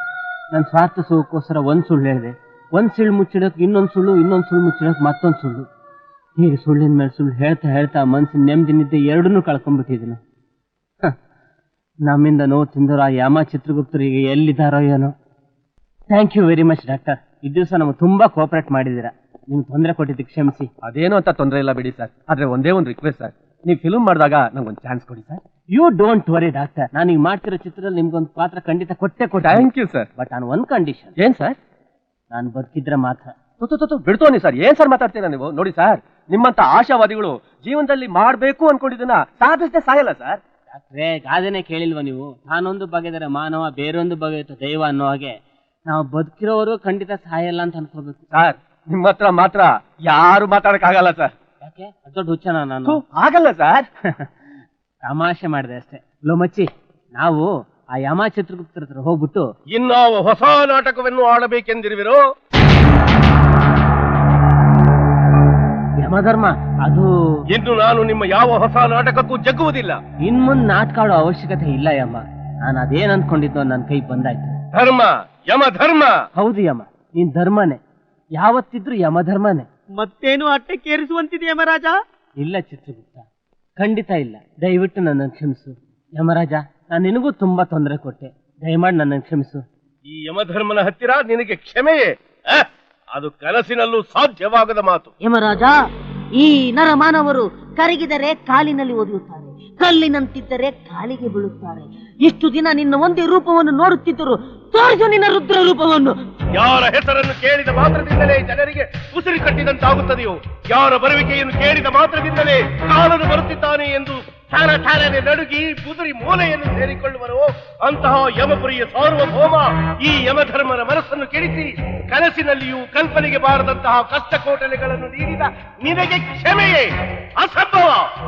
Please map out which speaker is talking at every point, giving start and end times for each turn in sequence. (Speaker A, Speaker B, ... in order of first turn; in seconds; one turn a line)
Speaker A: 0.5-5.7
Speaker A: 6.4-10.2
Speaker A: 12.0-15.1
Speaker A: 16.1-20.7
Speaker B: 20.9-25.4
Speaker A: 25.7-31.1
Speaker B: 29.5-30.0
Speaker B: 31.2-31.6
Speaker A: 32.3-33.3
Speaker B: 33.6-40.4
Speaker A: 40.7-48.2
Speaker B: 48.3-51.1
Speaker C: 50.4-51.3
Speaker A: 51.6-53.0
Speaker B: 52.9-53.8
Speaker A: 55.0-59.5
Speaker C: 59.7-62.2
Speaker A: 66.0-67.1
Speaker C: 67.5-70.0
Speaker A: 70.2-74.6
Speaker C: 74.7-76.1
Speaker A: 76.3-77.8
Speaker A: 78.4-79.7
Speaker D: 80.0-81.9
Speaker A: 82.4-83.2
Speaker A: 83.8-89.6
Speaker C: 90.0-95.1
Speaker D: 95.2-95.8
Speaker D: 96.4-106.1
Speaker C: 106.5-128.1